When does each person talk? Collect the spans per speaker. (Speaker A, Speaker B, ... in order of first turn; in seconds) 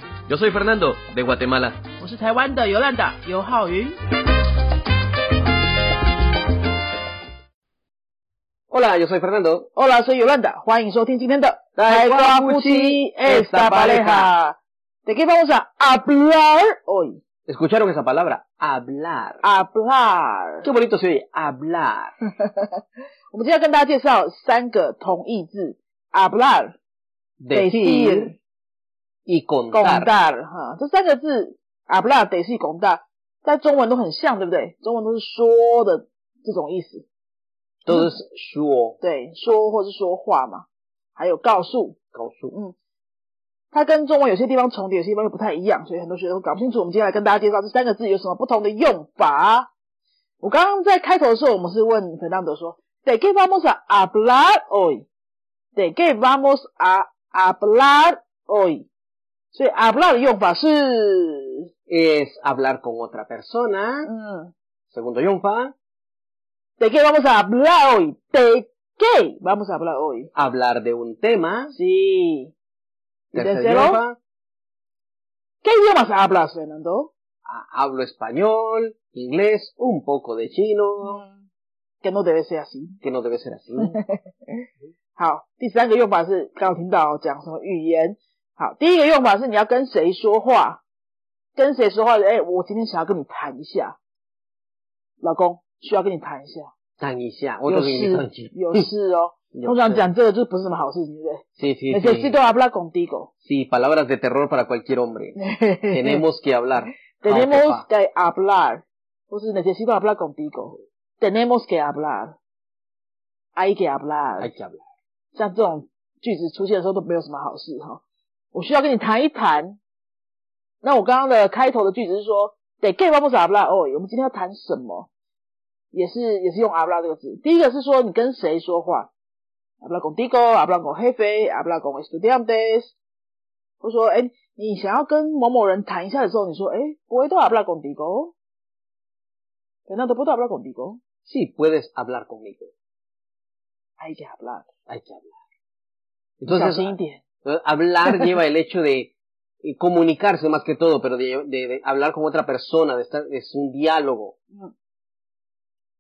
Speaker A: 0.3-1.8, 8.7-9.7, 11.8-14.3, 17.5-19.4, 20.6-22.1, 27.4-28.3, 29.3-30.1, 37.9-39.0, 42.1-42.5, 61.9-64.1, 64.9-65.7, 70.3-71.8, 73.3-74.2, 77.5-81.2, 83.0-84.0, 97.0-98.9, 99.5-100.0, 101.6-102.4, 103.5-105.4, 105.9-107.8, 114.4-114.8, 141.2-142.7, 144.9-145.3, 146.4-154.3
Speaker B: 2.0-4.0, 9.8-17.2, 19.4-20.7, 23.3-26.8, 27.5-28.4, 29.7-37.1, 39.0-42.0, 43.7-49.7, 50.4-55.1, 55.8-58.9, 59.5-61.7, 64.1-64.5, 66.8-70.3, 71.7-72.5, 73.3-74.0, 75.6-77.1, 81.0-81.4, 82.0-83.0, 83.8-84.2, 85.2-90.8, 91.6-94.0, 95.2-96.7, 97.7-103.3, 105.4-106.2, 107.2-112.4, 113.5-114.5, 115.3-119.8, 120.8-125.1, 125.9-129.1, 129.8-132.9, 133.8-138.3, 139.9-141.0, 144.0-144.7, 146.5-147.2